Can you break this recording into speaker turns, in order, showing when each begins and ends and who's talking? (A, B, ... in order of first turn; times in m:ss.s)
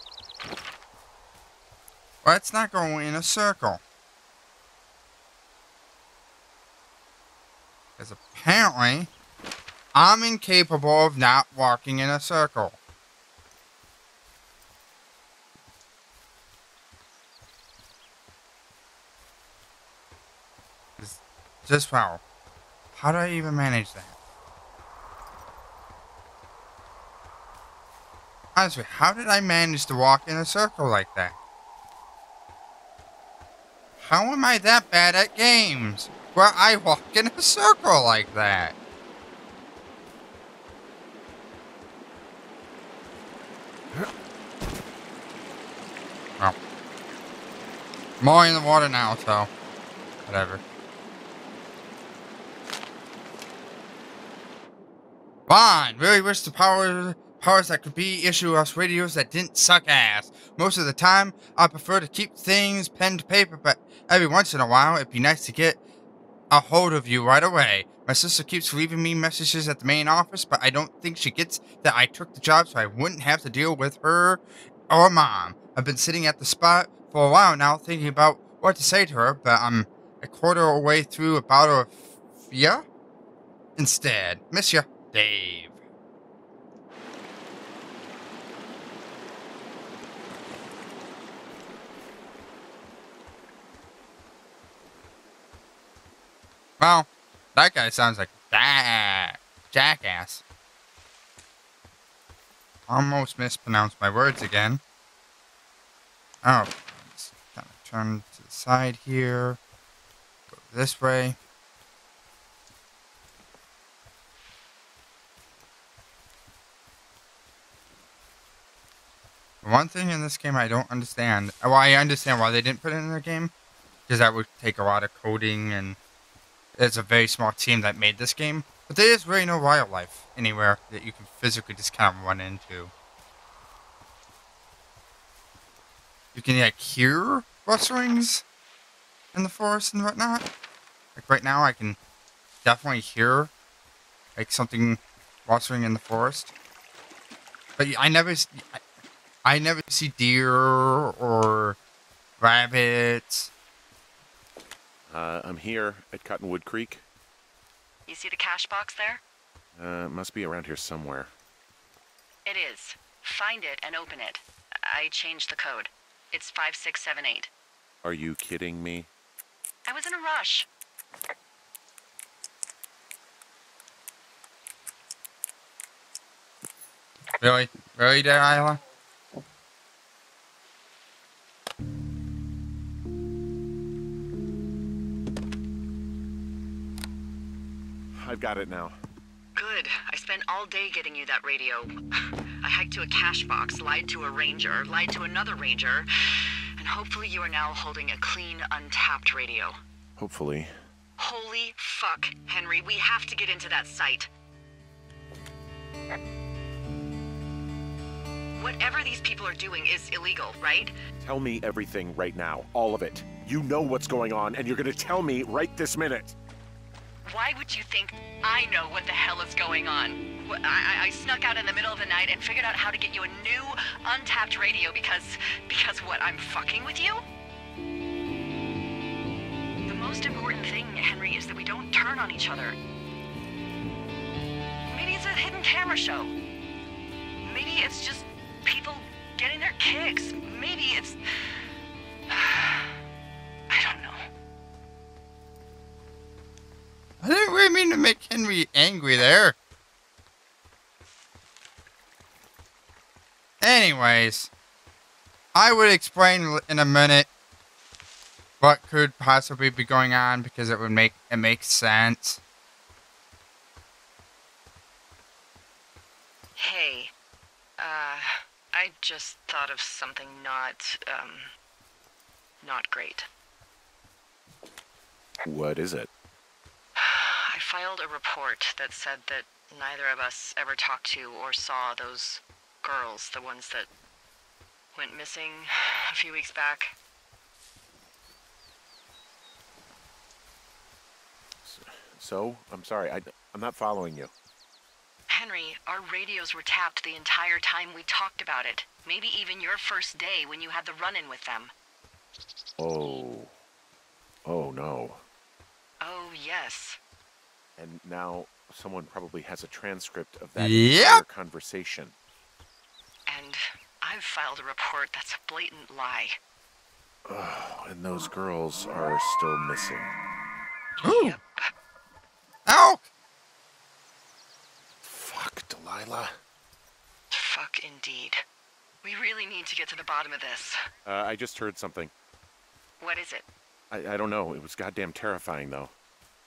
0:02.2-0:03.8 A
0:08.0-0:09.1 A
0:09.9-0:12.8 A
0:21.0-0:22.2 A
0:23.0-0:24.1 A
0:28.6-0:31.4 A
0:34.0-0:38.8 A
0:48.2-0:49.5 A
0:50.2-0:50.6 A
0:55.5-1:05.8 A
1:06.5-1:22.8 A
1:23.8-1:25.7 A
1:36.8-1:40.4 A
1:42.9-1:44.8 A
1:46.4-1:49.6 A
1:50.5-1:51.4 A
1:59.6-2:03.5 A
2:04.1-2:06.0 A
2:06.8-2:12.9 A
2:16.4-2:18.4 A
2:19.3-2:20.5 A
2:21.2-2:22.0 A
2:22.6-2:23.5 A
2:24.4-2:26.5 A
2:27.8-2:28.8 A
2:29.4-2:31.8 A
2:32.4-2:33.5 A
2:35.1-2:37.0 B
2:38.1-2:39.2 C
2:39.8-2:41.3 B
2:42.4-2:47.5 C
2:48.0-2:49.1 B
2:49.9-2:50.7 C
2:57.4-2:58.8 A
3:08.1-3:09.0 B
3:09.6-3:12.0 C
3:12.6-3:16.1 C
3:16.8-3:19.8 C
3:20.2-3:20.7 B
3:21.2-3:24.3 C
3:28.6-3:31.0 C
3:31.2-3:36.4 B
3:37.2-3:47.2 C
3:49.9-3:52.8 C
3:54.9-3:56.3 C
3:57.4-4:01.2 C
4:02.3-4:03.0 C
4:03.7-4:04.3 C
4:07.2-4:09.6 A
4:13.6-4:14.5 A
4:15.6-4:17.3 A
4:18.6-4:22.4 A
4:26.6-4:27.1 C
4:27.8-4:31.5 C
4:32.6-4:33.3 C
4:35.4-4:36.1 B
4:37.0-4:43.9 C
4:45.0-4:46.9 C
4:51.6-4:54.3 B
4:55.3-5:01.7 C
5:02.8-5:03.5 B
5:04.4-5:05.2 B
5:06.0-5:07.0 C
5:07.8-5:12.2 B
5:10.6-5:11.2 A
5:13.3-5:16.4 C
5:17.3-5:20.2 B
5:21.0-5:21.7 C
5:21.0-5:21.4 A
5:22.7-5:23.0 A
5:25.0-5:26.4 B
5:27.3-5:28.4 C
5:29.0-5:30.8 C
5:31.1-5:32.1 B
5:33.0-5:33.5 C
5:33.9-5:35.9 B